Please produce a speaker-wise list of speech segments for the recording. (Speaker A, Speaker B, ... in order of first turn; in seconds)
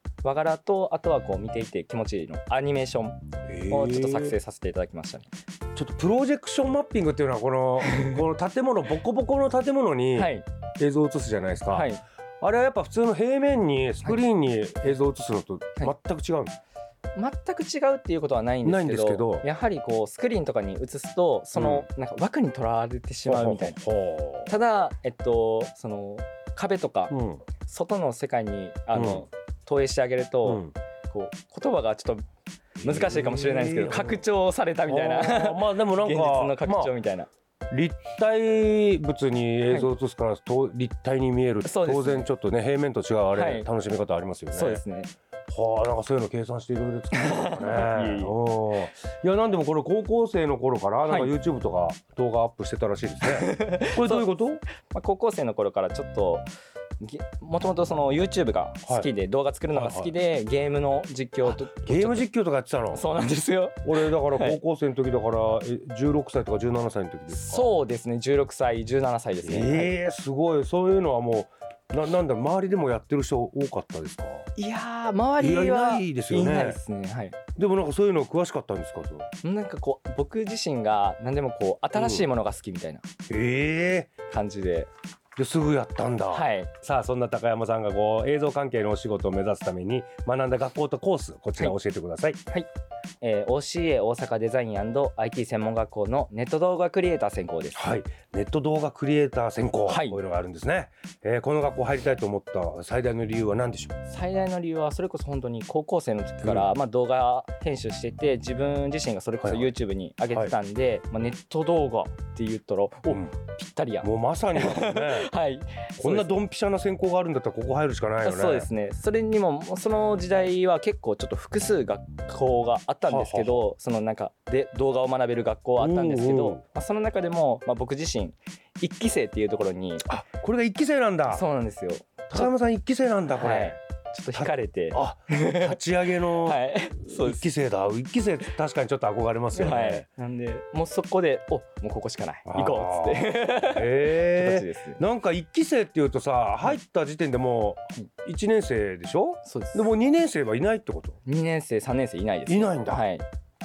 Speaker A: 0.2-5.3, 10.1-10.4, 11.7-12.0, 17.1-23.8, 24.5-32.2, 32.8-37.3, 41.6-42.3, 43.3-43.7, 44.5-45.1, 47.1-48.3, 51.1-51.3, 53.2-54.3, 54.8-56.4, 57.0-62.3, 62.9-64.6, 67.3-69.9, 74.5-77.4, 79.4-83.0, 84.3-84.9, 86.3-86.7, 93.2-97.8, 99.9-100.2, 104.0-116.3, 118.2-130.1, 131.3-132.5, 133.3-135.8, 136.3-137.5, 139.5-145.0, 149.4-149.9, 151.2-153.2
Speaker B: 3.5-4.4, 5.8-16.5, 18.6-19.4, 21.5-21.9, 23.2-24.5, 27.1-27.4, 28.9-29.2, 30.4-30.7, 32.8-34.2, 34.9-36.9, 37.7-44.8, 45.5-54.6, 59.7-60.1, 61.5-63.0, 63.8-67.7, 69.4-74.5, 75.4-76.8, 77.5-79.3, 81.9-82.2, 83.3-84.1, 85.3-92.4, 97.7-103.9, 106.4-106.7, 109.4-109.7, 113.1-113.3, 114.0-115.3, 116.0-118.7, 123.0-123.6, 125.8-126.6, 130.0-131.4, 132.3-133.8, 134.3-140.1, 142.4-151.2, 152.4-153.0